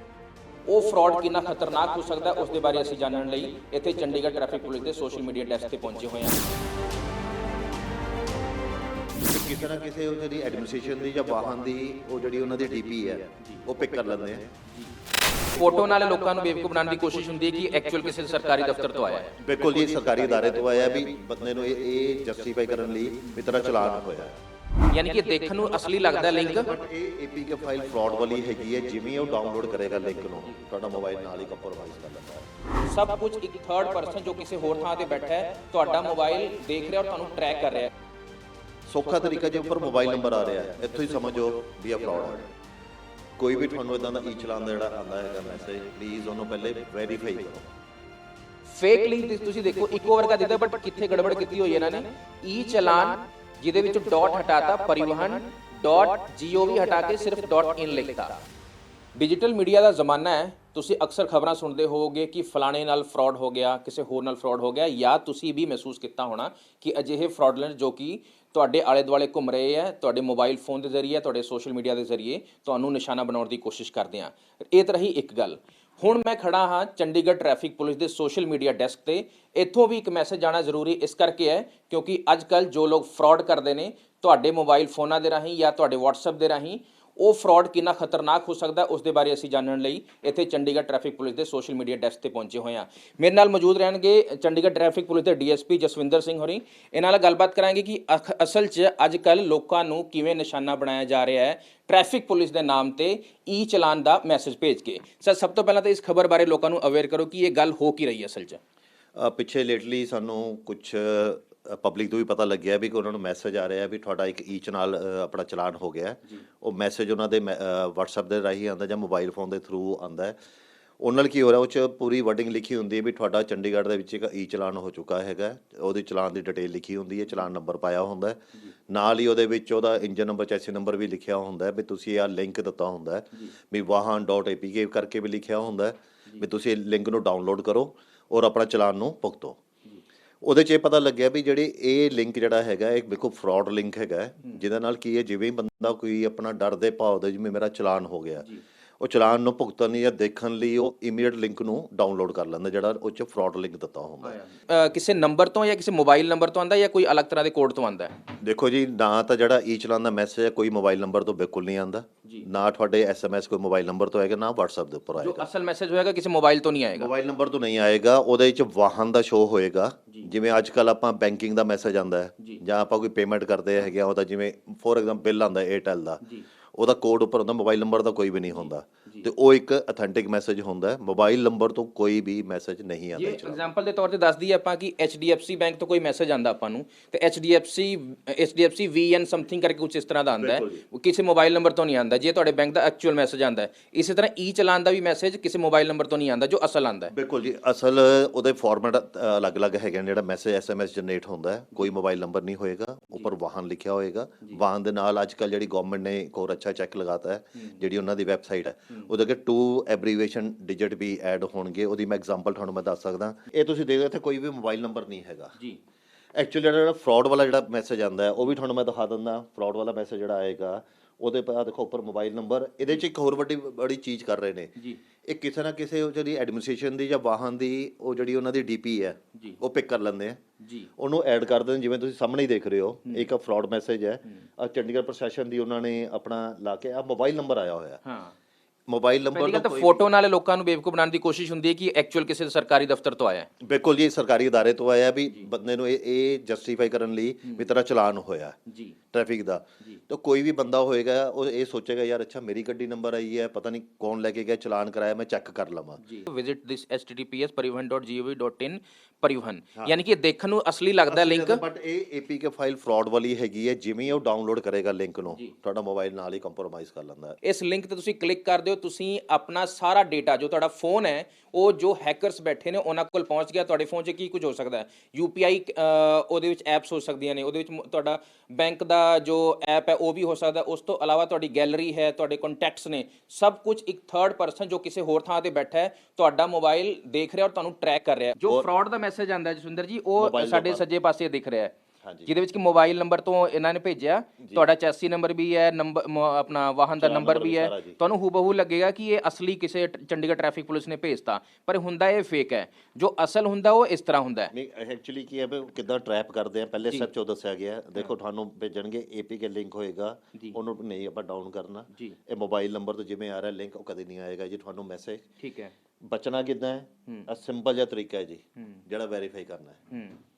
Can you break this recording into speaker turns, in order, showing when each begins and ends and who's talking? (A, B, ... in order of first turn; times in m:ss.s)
0:00.7-0:06.5 A
0:09.3-0:14.5 B
0:15.5-0:19.3 A
0:19.4-0:24.4 B
0:24.9-0:26.7 A
0:26.3-0:32.5 B
0:32.8-0:37.9 A
0:38.9-0:42.5 B
0:43.4-0:47.7 B
0:48.7-0:58.4 A
0:59.2-1:48.6 A
1:49.2-2:00.4 B
2:01.0-2:19.6 B
2:20.4-2:28.5 B
2:29.0-2:34.4 B
2:34.2-2:38.2 A
2:38.4-2:45.5 B
2:45.2-2:47.1 A
2:47.0-2:56.2 B
2:56.7-3:03.6 B
2:58.5-2:59.3 A
3:03.2-3:17.1 A
3:10.4-3:10.8 B
3:17.1-3:35.6 B
3:36.3-3:50.4 B
3:50.6-3:50.9 A
3:51.0-3:58.0 B
3:58.0-3:58.3 A
3:58.9-4:00.0 B
3:59.3-4:03.5 A
4:03.6-4:08.6 B
4:08.7-4:09.0 A
4:09.1-4:16.0 B
4:16.0-4:21.6 A
4:21.1-4:27.4 B
4:27.4-4:51.7 A
4:50.2-4:50.8 B
4:52.0-4:52.3 B
4:52.3-5:04.5 A
4:54.4-4:54.6 B
4:57.0-4:58.0 B
5:04.5-5:15.3 B
5:15.4-5:15.7 A
5:16.0-5:19.8 B
5:19.9-5:20.2 A